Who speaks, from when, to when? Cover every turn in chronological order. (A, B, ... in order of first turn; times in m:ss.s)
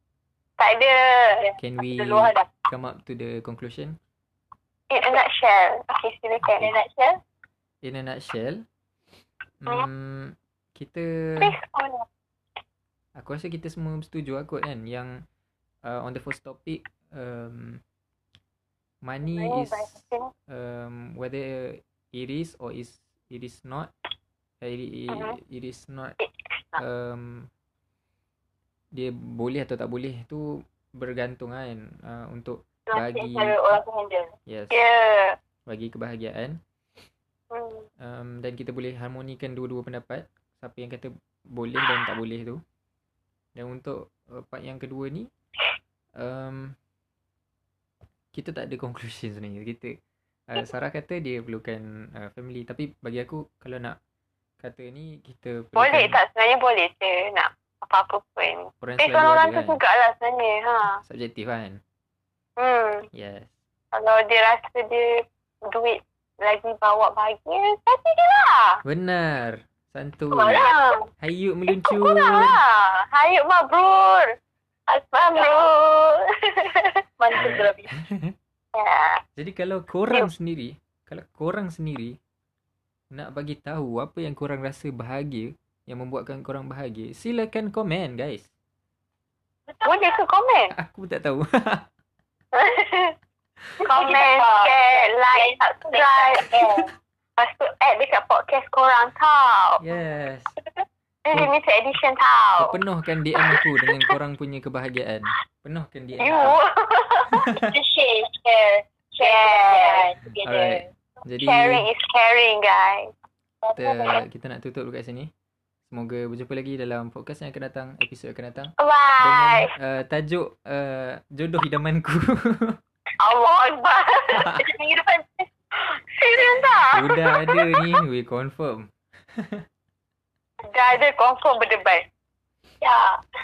0:00.6-0:01.5 A
0:01.4-0:02.5 B
0:01.6-0:04.0 C
0:04.9-0:06.7 A
0:06.4-0:06.7 C
0:06.5-0:07.2 B
0:07.8-0:08.6 C
0:09.6-0:11.5 C
0:11.4-0:12.0 A
0:13.2-0:15.2 C
0:15.8-0:17.8 C
0:19.0-0:23.9 C
0:19.3-0:20.3 A
0:24.6-0:26.2 C
0:26.2-0:26.8 A
0:26.8-0:27.5 C
0:28.9-0:33.6 C
0:32.9-0:34.3 B
0:34.5-0:34.8 C
0:34.7-0:35.4 A
0:35.7-0:36.6 C
0:37.5-0:37.8 A
0:38.0-0:42.6 C
0:43.6-0:45.3 C
0:46.2-0:46.8 C
0:48.3-0:50.0 C
0:50.5-0:54.0 C
0:54.6-0:56.2 C
0:55.8-1:01.0 A
0:58.8-0:59.8 C
1:01.0-1:01.8 C
1:02.6-1:03.1 A
1:03.1-1:03.6 C
1:03.9-1:08.8 A
1:08.8-1:10.7 C
1:10.5-1:11.0 A
1:11.2-1:12.6 C
1:11.8-1:14.3 A
1:14.9-1:17.0 A
1:17.2-1:17.9 B
1:17.3-1:18.4 C
1:18.7-1:19.2 A
1:19.4-1:22.2 C
1:23.1-1:28.5 C
1:29.7-1:30.2 B
1:29.8-1:30.7 A
1:30.7-1:31.9 C
1:32.5-1:33.1 A
1:33.8-1:36.9 B
1:33.8-1:36.6 A
1:37.4-1:39.8 A
1:39.8-1:40.6 C
1:41.2-1:42.7 A
1:42.6-1:46.6 C
1:46.2-1:47.6 A
1:47.3-1:47.7 C
1:47.5-1:50.9 B
1:49.2-1:50.1 A
1:50.3-1:51.8 C
1:51.4-1:53.1 A
1:53.6-1:54.2 B
1:53.7-1:55.3 C
1:55.9-2:02.8 C
1:58.8-1:59.7 A
2:03.2-2:04.6 A
2:04.3-2:04.6 C
2:04.6-2:05.5 B
2:06.2-2:07.6 A
2:06.4-2:06.6 B
2:06.9-2:09.6 C
2:10.7-2:12.1 A
2:12.8-2:13.2 B